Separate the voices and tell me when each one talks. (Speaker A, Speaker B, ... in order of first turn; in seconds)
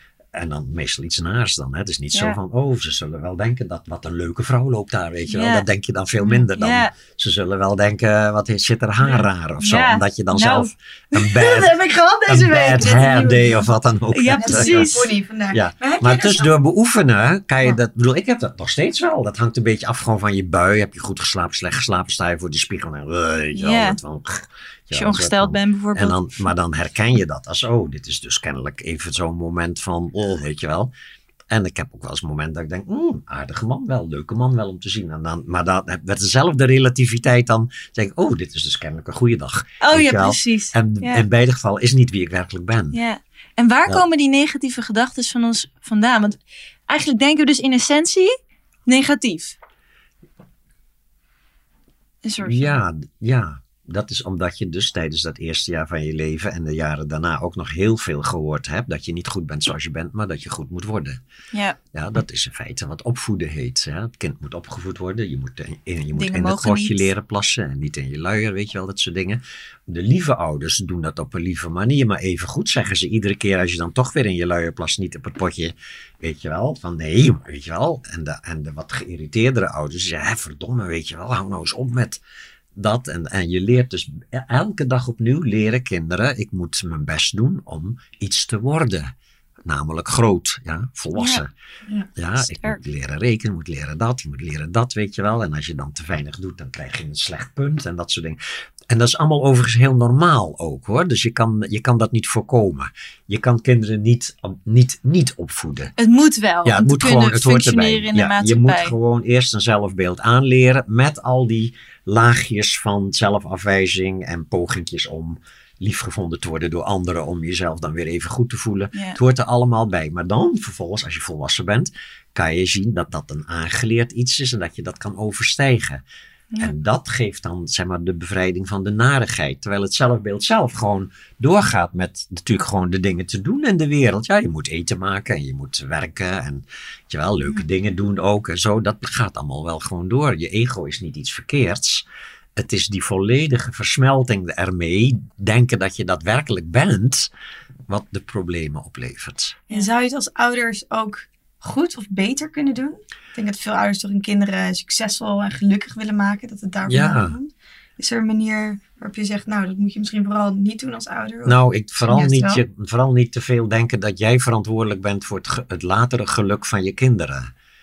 Speaker A: 0.3-15.0, 15.5-30.9, 31.5-43.0, 52.4-61.2, 61.9-82.2, 82.8-89.1, 89.6-91.5, 92.2-98.4, 98.9-105.9, 106.7-126.0, 126.6-142.0, 142.6-147.3, 147.9-149.6, 156.9-157.3, 161.4-167.5
Speaker B: 5.3-5.7, 6.6-6.9, 9.6-13.2, 14.1-15.1, 23.6-24.0, 24.9-26.3, 39.8-41.2, 42.9-48.4, 48.9-49.6, 52.2-52.8, 66.1-67.1, 91.2-91.4, 92.4-92.8, 106.0-108.9
Speaker C: 6.2-6.5, 11.7-13.7, 14.4-16.5, 149.7-162.6